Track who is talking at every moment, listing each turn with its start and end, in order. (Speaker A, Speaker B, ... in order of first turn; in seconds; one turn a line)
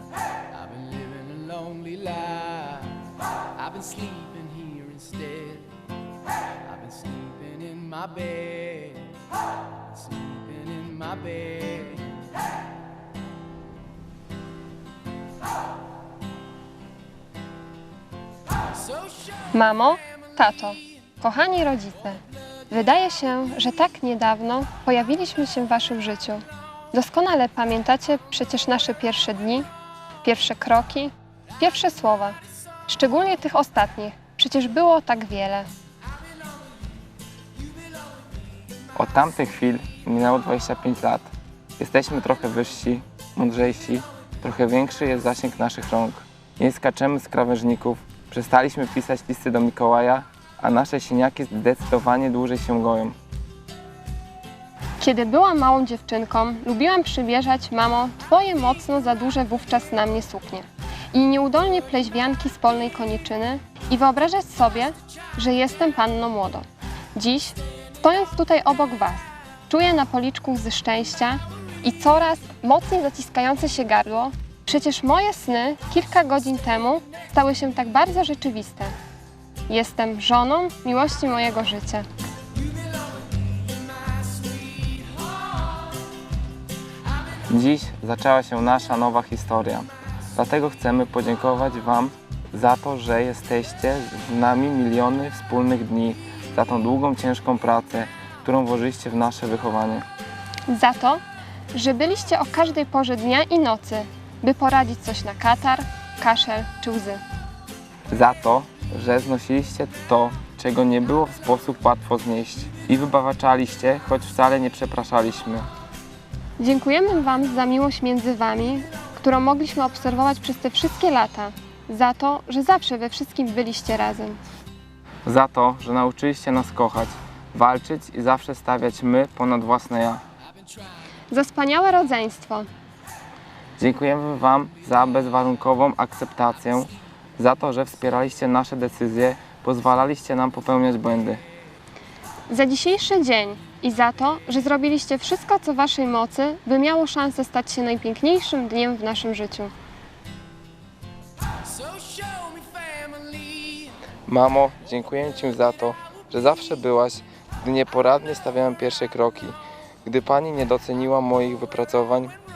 Speaker A: 0.5-5.7
Speaker A: 6.6-9.2
Speaker A: 9.9-12.2
Speaker B: 19.5-29.7
Speaker B: 30.2-35.7
Speaker C: 39.0-53.2
Speaker B: 55.0-78.9
Speaker B: 79.7-82.1
Speaker C: 87.5-100.0
Speaker B: 100.7-101.2
Speaker B: 101.7-107.2
Speaker C: 108.1-115.7
Speaker B: 116.6-124.4
Speaker C: 125.2-130.2
Speaker B: 131.3-132.7
Speaker C: 133.8-141.4
Speaker B: 142.5-149.7
Speaker A: 151.7-153.8
Speaker C: 154.3-162.4